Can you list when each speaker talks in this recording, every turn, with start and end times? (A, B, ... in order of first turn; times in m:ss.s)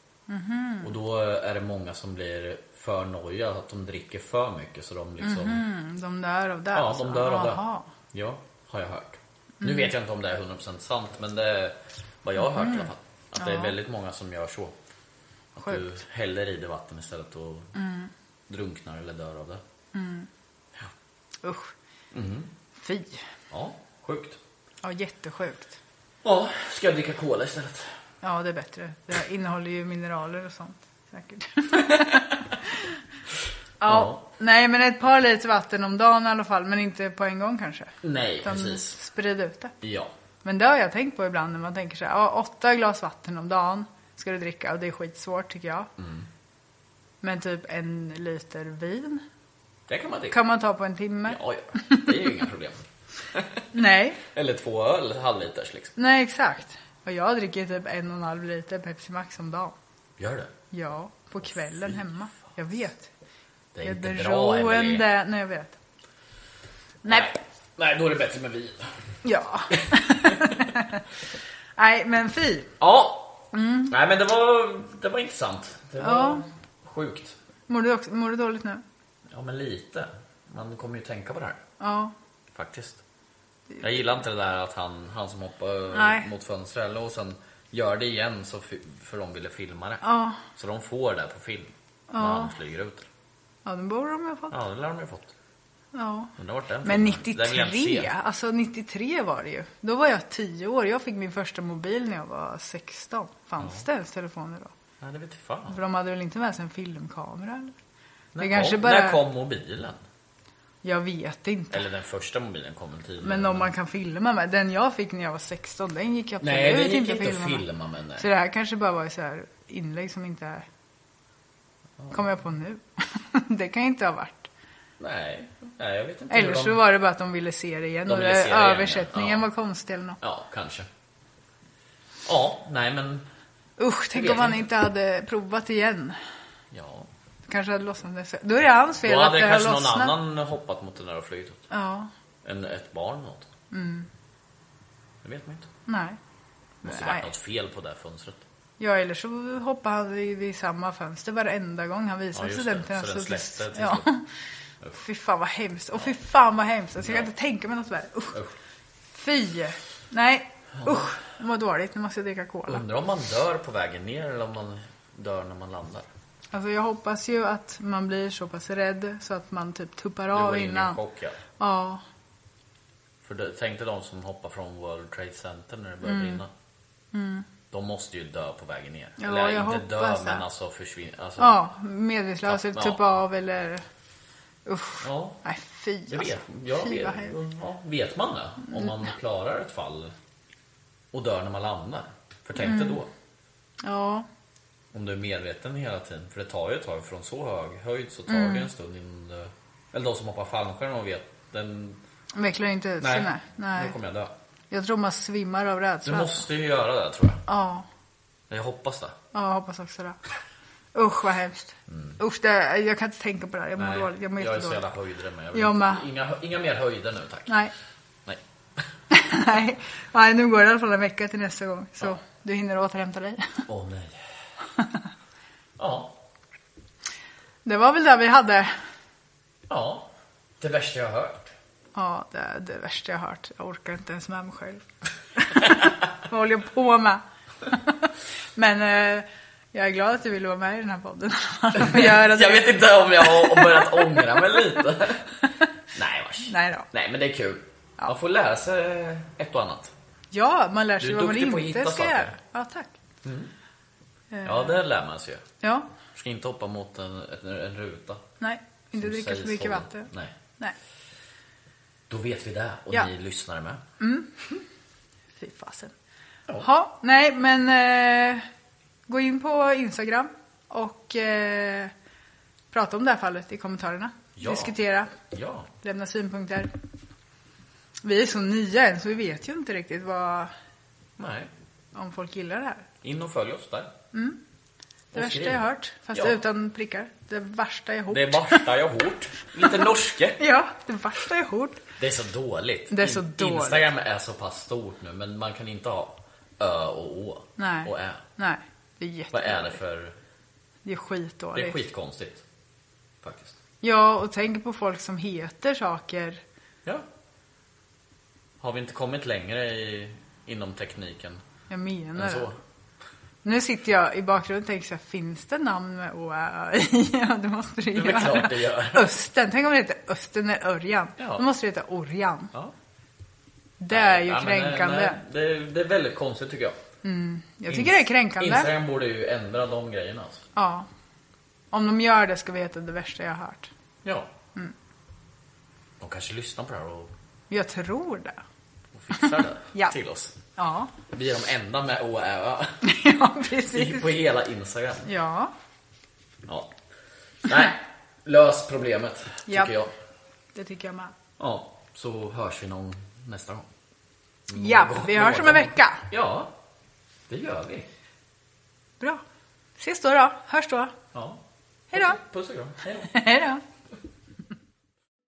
0:00.3-0:00.9 A
0:00.8-0:05.6 B
0:05.2-0:07.9 A
0:06.7-0:14.7 B
0:09.6-0:09.9 A
0:12.4-0:13.8 A
0:15.6-0:17.7 B
0:15.6-0:15.8 A
0:17.7-0:18.1 A
0:18.5-0:19.6 B
0:19.9-0:20.3 A
0:21.4-0:21.7 A
0:22.1-0:22.5 B
0:22.8-0:23.2 A
0:23.5-0:24.4 B
0:24.8-0:25.8 A
0:26.2-0:27.9 B
0:28.2-0:32.8 A
0:33.8-0:39.7 A
0:33.8-0:34.2 B
0:38.0-0:38.9 B
0:39.8-0:40.1 B
0:40.4-0:45.9 A
0:46.0-0:46.2 B
0:47.2-0:49.2 A
0:49.9-0:50.4 B
0:50.3-0:52.3 A
0:51.3-0:53.7 B
0:53.7-0:54.2 A
0:54.2-0:55.9 B
0:56.0-0:59.7 A
1:00.2-1:00.5 B
1:00.7-1:03.1 A
1:03.7-1:05.1 B
1:03.8-1:05.7 A
1:07.0-1:07.3 A
1:07.0-1:08.9 B
1:09.2-1:11.0 A
1:09.7-1:10.5 B
1:11.8-1:12.7 A
1:12.8-1:17.3 B
1:13.5-1:13.9 A
1:16.0-1:16.4 A
1:17.7-1:18.8 A
1:19.3-1:21.6 B
1:21.8-1:22.1 A
1:22.5-1:23.0 B
1:23.7-1:24.1 A
1:23.8-1:33.0 B
1:25.9-1:26.3 A
1:30.0-1:30.4 A
1:32.1-1:32.5 A
1:33.6-1:34.5 A
1:34.5-1:35.3 B
1:35.9-1:36.3 A
1:36.4-1:38.1 B
1:36.8-1:44.7 A
1:45.0-1:45.8 B
1:45.7-1:47.7 A
1:48.3-1:50.0 B
1:48.4-1:49.2 A
1:50.8-1:51.9 A
1:51.7-1:53.7 B
1:53.2-1:57.6 A
1:56.4-1:58.3 B
1:58.2-2:00.6 A
2:02.1-2:04.5 A
2:05.0-2:06.8 B
2:06.3-2:10.2 A
2:08.1-2:09.5 B
2:10.2-2:10.9 B
2:12.2-2:13.2 B
2:13.8-2:16.2 A
2:14.1-2:14.6 B
2:16.7-2:17.1 B
2:17.4-2:20.1 A
2:19.0-2:21.7 B
2:21.7-2:22.1 A
2:22.4-2:23.5 B
2:23.7-2:24.1 A
2:25.2-2:25.7 B
2:25.9-2:26.2 A
2:26.8-2:27.3 A
2:26.8-2:28.4 B
2:28.8-2:34.2 A
2:32.3-2:34.1 B
2:35.0-2:38.4 A
2:39.1-2:42.8 A
2:40.8-2:41.0 B
2:42.7-2:46.1 B
2:46.5-2:51.0 A
2:50.3-2:51.4 B
2:51.6-2:52.0 A
2:53.2-2:56.5 B
2:56.0-2:56.4 A
2:57.1-2:57.4 A
2:57.7-3:01.6 B
2:59.2-3:00.4 A
3:01.4-3:03.8 A
3:02.4-3:03.0 B
3:04.6-3:07.3 A
3:05.0-3:05.4 B
3:06.1-3:10.1 B
3:11.1-3:13.1 B
3:12.6-3:13.0 A
3:13.8-3:14.3 A
3:14.9-3:22.0 B
3:18.3-3:18.7 A
3:22.4-3:23.9 A
3:23.0-3:24.3 B
3:24.7-3:26.4 A
3:26.0-3:27.4 B
3:27.5-3:27.8 A
3:28.5-3:29.2 B
3:29.3-3:30.2 A
3:30.9-3:34.8 A
3:31.9-3:32.2 B
3:33.8-3:37.6 B
3:35.5-3:36.0 A
3:37.5-3:37.7 A
3:38.2-3:38.9 B
3:39.1-3:43.6 A
3:43.7-3:44.2 B
3:45.8-3:46.1 B
3:47.6-3:48.8 A
3:49.7-3:50.1 B
3:50.6-3:51.5 B
3:51.9-3:54.8 A
3:55.4-4:04.6 A
4:01.7-4:05.3 B
4:05.9-4:09.9 B
4:06.4-4:06.9 A
4:10.3-4:12.9 A
4:11.0-4:12.4 B
4:13.2-4:13.5 B
4:14.3-4:14.8 A
4:14.4-4:15.4 B
4:15.6-4:15.9 A
4:16.1-4:18.2 B
4:18.4-4:20.7 A
4:18.9-4:20.3 B
4:22.1-4:23.8 B
4:24.0-4:24.4 A
4:25.4-4:25.9 A
4:26.6-4:28.4 A
4:29.1-4:31.9 A
4:32.7-4:35.1 A
4:34.4-4:35.7 B
4:35.8-4:36.7 A
4:38.0-4:40.5 A
4:41.2-4:41.5 B
4:41.9-4:42.9 A
4:43.0-4:43.9 B
4:44.1-4:44.4 A
4:45.1-4:46.4 B
4:45.1-4:48.6 A
4:48.1-4:50.4 B
4:50.4-4:51.8 A
4:52.0-4:58.2 B
4:52.9-4:53.9 A
4:57.6-4:59.8 A
4:59.3-5:00.1 B
5:00.8-5:01.8 A
5:01.5-5:02.4 B
5:03.2-5:03.6 B
5:03.8-5:06.4 A
5:08.6-5:11.4 B
5:11.7-5:12.5 A
5:12.2-5:12.6 B
5:13.4-5:22.5 A
5:17.9-5:19.1 B
5:21.2-5:21.4 B
5:23.8-5:25.2 A
5:23.9-5:26.8 B
5:27.0-5:28.7 A
5:27.7-5:30.4 B
5:30.6-5:30.9 A
5:31.7-5:33.7 A
5:34.0-5:34.3 B
5:36.0-5:37.1 B
5:37.5-5:38.4 A
5:38.9-5:40.3 B
5:39.1-5:39.9 A
5:40.6-5:40.9 A
5:41.1-5:42.8 B
5:42.8-5:44.1 A
5:43.7-5:45.1 B
5:45.0-5:45.5 A
5:46.4-5:46.7 B
5:47.4-5:49.9 B
5:49.5-5:49.7 A
5:50.5-5:51.1 A
5:51.4-5:53.7 B
5:54.5-5:56.5 B
5:54.5-5:56.1 A
5:57.3-5:57.9 B
5:59.8-6:00.9 A
6:01.1-6:01.4 B
6:01.9-6:02.2 A
6:01.9-6:03.1 B
6:02.9-6:03.6 A